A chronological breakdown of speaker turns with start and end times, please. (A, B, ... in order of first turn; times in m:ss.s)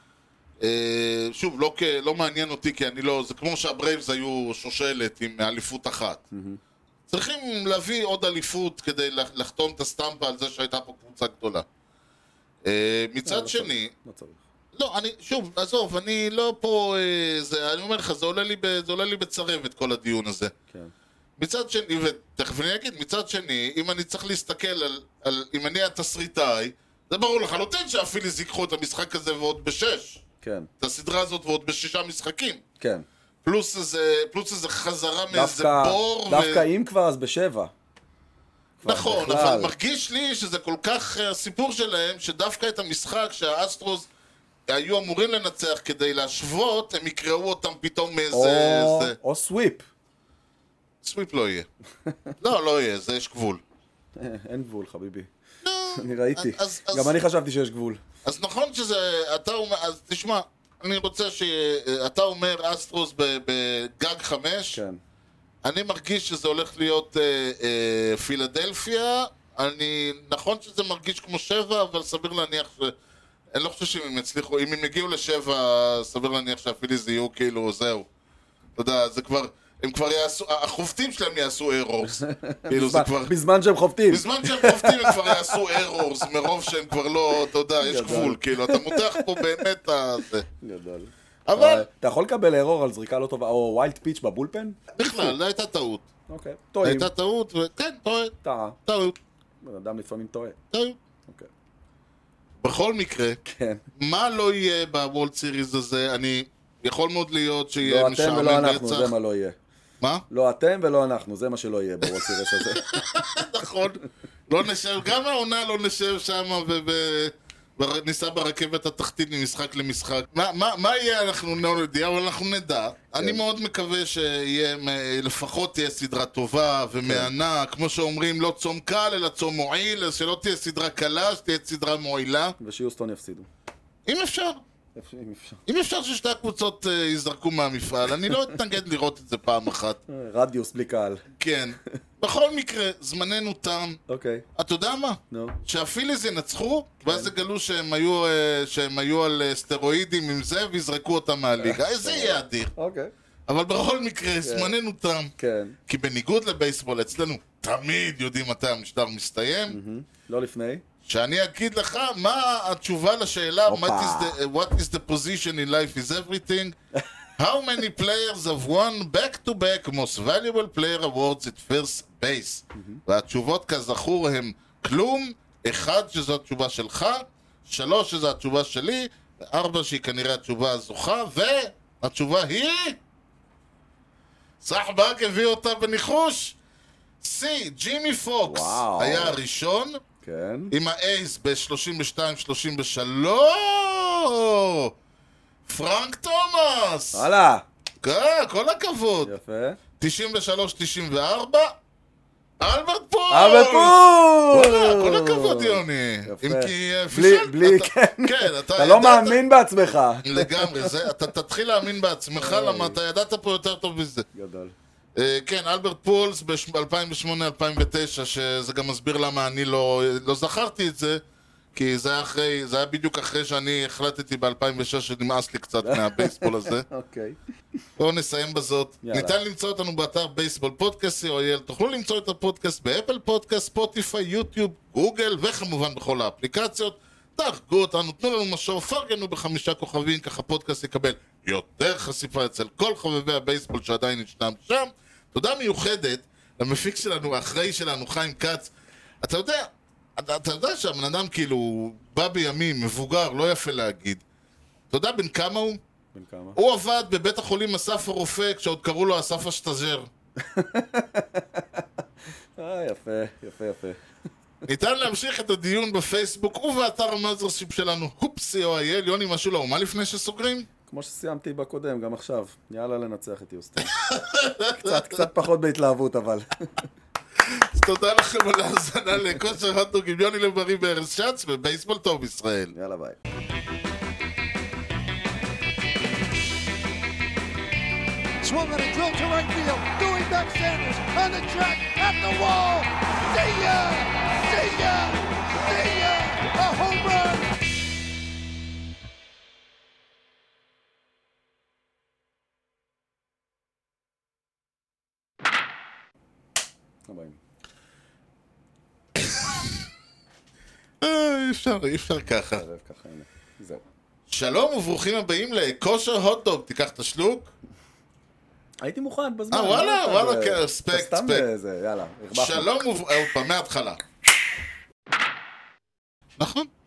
0:00.6-0:06.2 A
0:06.3-0:06.6 B
0:07.1-0:11.6 A
0:12.6-0:13.9 A
0:13.2-0:14.4 B
0:14.7-0:20.5 A
0:21.4-0:30.2 A
0:30.4-0:30.7 B
0:30.8-0:32.6 A
0:32.8-0:33.0 B
0:33.4-0:36.6 A
0:35.3-0:37.7 B
0:38.8-0:39.7 B
0:38.8-0:44.1 A
0:44.7-0:49.2 A
0:48.3-0:49.8 B
0:51.0-0:51.7 A
0:52.4-0:53.6 A
0:54.2-0:55.3 B
0:55.6-0:57.1 A
0:56.0-0:58.0 B
0:58.2-1:04.8 A
1:04.7-1:05.0 B
1:05.6-1:12.9 A
1:13.5-1:18.1 A
1:18.8-1:23.3 A
1:22.1-1:25.8 B
1:24.1-1:30.4 A
1:27.8-1:29.6 B
1:30.6-1:35.4 B
1:31.5-1:31.9 A
1:34.9-1:36.1 A
1:36.3-1:37.1 B
1:36.8-1:38.3 A
1:38.4-1:38.8 B
1:38.9-1:39.2 A
1:39.6-1:40.6 B
1:40.7-1:41.0 A
1:42.6-1:43.4 A
1:43.4-1:43.8 B
1:44.0-1:49.1 A
1:47.8-1:49.6 B
1:50.3-1:53.0 B
1:52.1-2:12.6 A
2:03.2-2:03.4 B
2:07.0-2:07.3 B
2:12.6-2:13.5 B
2:14.0-2:14.6 A
2:15.0-2:15.6 B
2:15.7-2:20.0 A
2:20.1-2:21.2 B
2:21.4-2:24.0 A
2:24.1-2:24.4 B
2:24.6-2:32.7 A
2:25.3-2:25.6 B
2:27.0-2:27.3 B
2:31.6-2:33.1 B
2:33.5-2:35.3 A
2:34.4-2:34.7 B
2:35.4-2:35.8 B
2:35.9-2:39.8 A
2:39.7-2:40.8 B
2:41.1-2:46.7 A
2:43.7-2:44.4 B
2:47.4-3:03.0 A
2:52.7-2:53.0 B
3:04.6-3:06.6 A
3:07.2-3:10.0 A
3:08.5-3:09.4 B
3:10.2-3:10.7 B
3:10.7-3:14.9 A
3:15.6-3:17.2 A
3:17.1-3:17.6 B
3:18.0-3:19.3 A
3:19.2-3:19.8 B
3:20.0-3:21.7 A
3:22.6-3:24.0 A
3:23.3-3:30.9 B
3:24.5-3:29.4 A
3:30.2-3:34.2 A
3:32.4-3:33.0 B
3:34.3-3:34.7 B
3:35.2-3:41.2 A
3:41.7-3:46.8 A
3:45.8-3:47.4 B
3:48.0-4:08.7 A
3:49.0-3:49.4 B
4:09.2-4:14.2 A
4:14.9-4:15.8 A
4:16.1-4:16.6 B
4:16.6-4:20.1 A
4:20.4-4:21.8 B
4:22.6-4:24.0 B
4:24.6-4:30.7 A
4:30.9-4:33.9 B
4:33.8-4:35.3 A
4:34.8-4:36.8 B
4:37.4-4:42.7 A
4:42.7-4:43.2 B
4:48.4-4:57.6 C
5:07.1-5:07.4 B
5:11.0-5:12.6 A
5:12.6-5:13.8 B
5:14.3-5:17.5 A
5:18.8-5:22.7 B
5:19.5-5:21.4 A
5:22.3-5:24.0 A
5:26.4-5:26.7 A